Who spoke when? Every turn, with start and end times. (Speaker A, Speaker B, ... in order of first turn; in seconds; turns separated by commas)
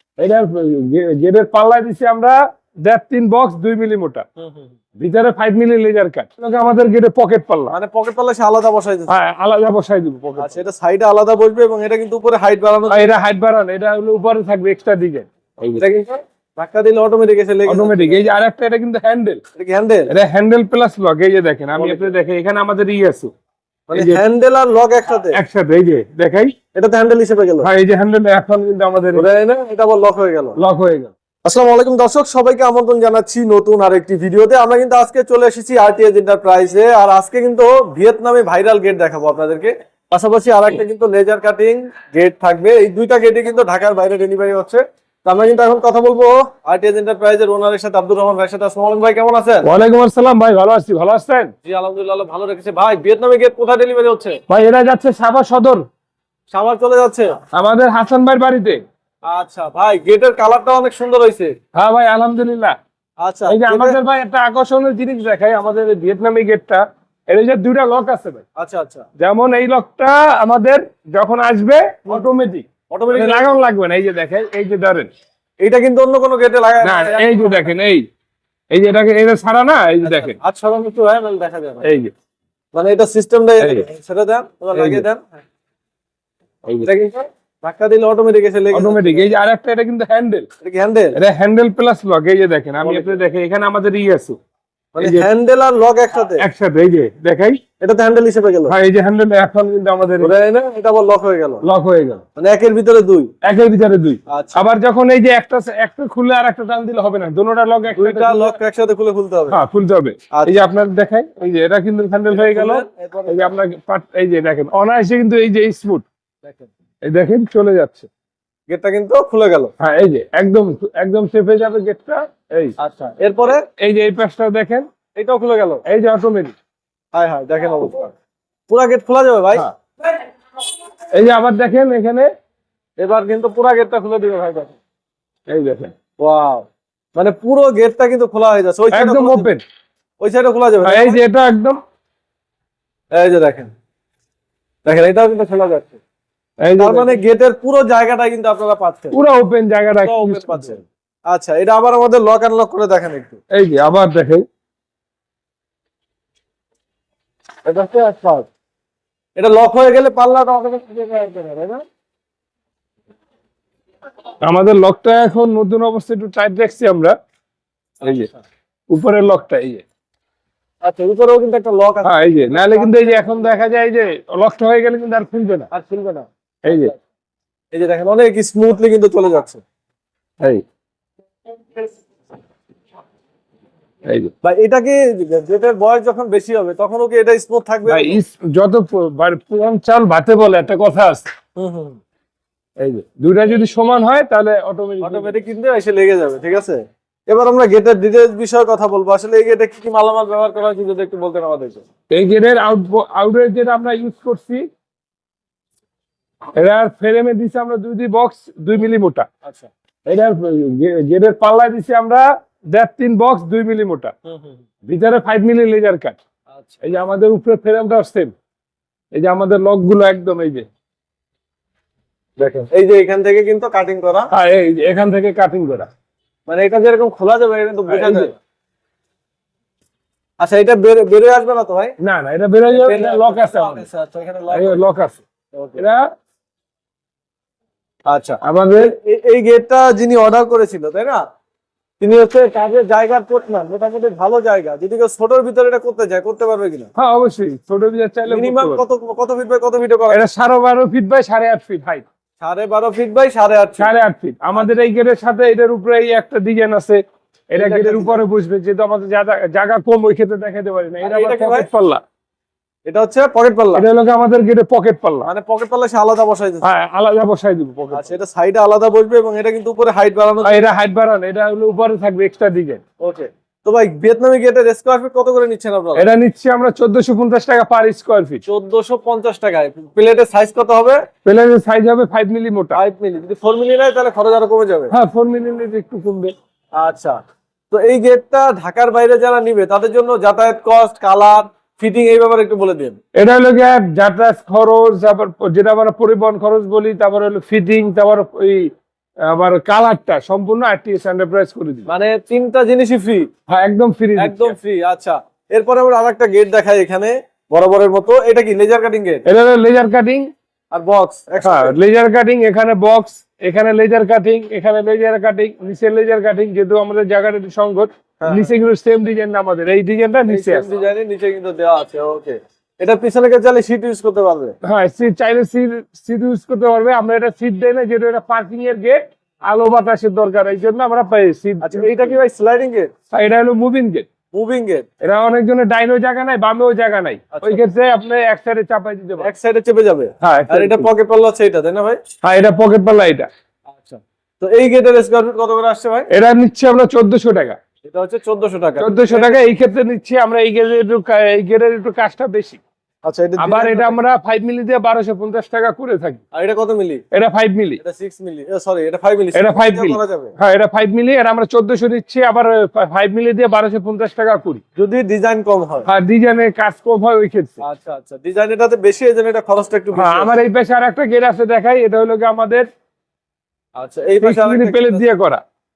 Speaker A: 0.2-4.2, Speaker B: 4.4-4.7, Speaker A: 5.0-7.7, Speaker B: 7.7-9.1, Speaker A: 9.1-10.6, Speaker B: 10.4-13.1, Speaker A: 12.9-15.8, Speaker B: 15.8-18.2, Speaker A: 17.7-19.4, Speaker B: 19.6-20.1, Speaker A: 20.1-23.3, Speaker B: 21.8-22.1, Speaker B: 23.9-25.4, Speaker A: 23.9-24.2, Speaker A: 25.3-26.5, Speaker B: 26.7-27.7, Speaker A: 27.6-29.3, Speaker B: 29.1-30.6, Speaker A: 30.6-31.1, Speaker B: 31.4-49.6, Speaker A: 49.6-51.5, Speaker B: 51.6-54.4, Speaker A: 54.5-55.9, Speaker B: 56.5-57.3, Speaker A: 57.5-58.8, Speaker B: 59.3-61.5, Speaker A: 61.8-62.8, Speaker B: 63.2-64.0, Speaker A: 63.5-68.4, Speaker B: 68.6-69.1, Speaker A: 69.2-75.1, Speaker B: 72.9-73.5, Speaker B: 75.6-77.7, Speaker A: 76.8-78.0, Speaker A: 78.7-80.4, Speaker B: 80.0-81.8, Speaker A: 81.8-82.1, Speaker B: 82.7-85.4, Speaker A: 83.6-83.9, Speaker A: 84.8-85.0, Speaker B: 86.8-89.3, Speaker A: 88.7-90.5, Speaker B: 90.6-91.2, Speaker A: 91.2-94.4, Speaker B: 92.8-93.2, Speaker B: 95.0-96.4, Speaker A: 95.0-95.3, Speaker A: 96.4-97.6, Speaker B: 97.8-98.8, Speaker A: 98.7-100.3, Speaker B: 100.2-101.6, Speaker A: 101.6-102.2, Speaker B: 102.4-103.3, Speaker A: 103.4-108.6, Speaker B: 104.3-104.6, Speaker B: 108.0-109.6, Speaker A: 109.5-116.0, Speaker B: 112.3-113.5, Speaker B: 116.4-116.7, Speaker A: 117.1-118.1, Speaker B: 118.7-119.7, Speaker A: 119.8-122.8, Speaker B: 122.8-123.6, Speaker A: 123.8-124.9, Speaker B: 125.2-125.8, Speaker A: 125.9-126.5, Speaker B: 127.1-128.1, Speaker B: 128.7-129.7, Speaker A: 131.1-132.3, Speaker B: 133.0-134.8, Speaker A: 135.5-135.9, Speaker B: 136.2-139.5, Speaker A: 138.9-139.6, Speaker B: 140.2-141.2, Speaker A: 140.8-141.8, Speaker B: 143.1-143.7, Speaker B: 144.8-146.0, Speaker A: 146.6-147.2, Speaker B: 146.8-149.2, Speaker A: 149.1-150.8, Speaker B: 150.0-153.4, Speaker A: 153.5-154.4, Speaker B: 157.7-158.5, Speaker B: 159.4-161.8, Speaker A: 164.4-167.2, Speaker A: 168.0-168.3, Speaker B: 168.1-168.4, Speaker A: 168.9-169.8, Speaker B: 170.8-173.4, Speaker A: 172.1-175.7, Speaker B: 175.7-176.9, Speaker A: 176.7-176.9, Speaker B: 177.7-179.6, Speaker A: 184.1-184.3, Speaker B: 184.4-188.2, Speaker A: 187.9-191.3, Speaker B: 191.6-192.0, Speaker A: 192.8-195.4, Speaker B: 195.0-201.8, Speaker A: 202.1-204.7, Speaker A: 206.6-209.3, Speaker B: 209.4-209.7, Speaker A: 210.1-214.1, Speaker B: 214.2-214.6, Speaker A: 214.9-216.2, Speaker B: 216.5-216.8, Speaker A: 216.8-218.3, Speaker A: 219.2-220.7, Speaker B: 222.6-224.3, Speaker A: 224.3-225.9, Speaker B: 226.5-228.3, Speaker A: 227.9-228.3, Speaker B: 230.4-231.9, Speaker A: 232.0-233.9, Speaker B: 232.7-234.8, Speaker A: 234.5-235.2, Speaker B: 235.5-235.8, Speaker A: 235.8-236.1, Speaker B: 238.1-241.2, Speaker A: 238.4-238.9, Speaker B: 242.0-246.9, Speaker A: 247.0-248.8, Speaker B: 248.3-250.2, Speaker A: 250.1-252.1, Speaker B: 252.4-253.9, Speaker A: 253.8-257.0, Speaker A: 257.5-262.0, Speaker B: 257.6-258.2, Speaker B: 261.0-261.7, Speaker B: 262.9-263.9, Speaker A: 263.8-265.3, Speaker B: 265.2-266.7, Speaker A: 266.6-268.1, Speaker B: 267.9-270.7, Speaker A: 270.4-272.8, Speaker B: 273.0-276.1, Speaker A: 276.0-278.4, Speaker B: 278.5-281.0, Speaker A: 281.2-282.8, Speaker B: 282.7-284.9, Speaker A: 284.9-286.3, Speaker B: 286.8-287.2, Speaker B: 287.7-293.0, Speaker A: 293.2-298.7, Speaker A: 299.3-301.9, Speaker B: 301.9-303.3, Speaker A: 303.5-304.6, Speaker B: 304.2-309.2, Speaker A: 309.3-310.3, Speaker B: 310.7-311.8, Speaker A: 311.4-320.7, Speaker B: 318.2-318.5, Speaker B: 320.3-324.6, Speaker A: 324.6-332.2, Speaker B: 331.6-332.9, Speaker A: 333.1-334.1, Speaker B: 334.3-334.9, Speaker A: 335.0-339.3, Speaker B: 337.4-337.6, Speaker B: 339.2-342.0, Speaker A: 340.2-340.9, Speaker A: 342.2-343.3, Speaker B: 343.7-346.1, Speaker A: 346.1-347.6, Speaker B: 347.8-349.4, Speaker A: 348.8-352.6, Speaker B: 353.0-354.0, Speaker A: 353.4-356.2, Speaker B: 356.3-357.0, Speaker A: 357.1-357.8, Speaker B: 357.8-360.3, Speaker A: 359.4-364.6, Speaker B: 364.8-365.9, Speaker A: 365.9-367.6, Speaker B: 367.6-370.4, Speaker A: 369.9-372.7, Speaker B: 373.8-375.0, Speaker A: 374.2-375.4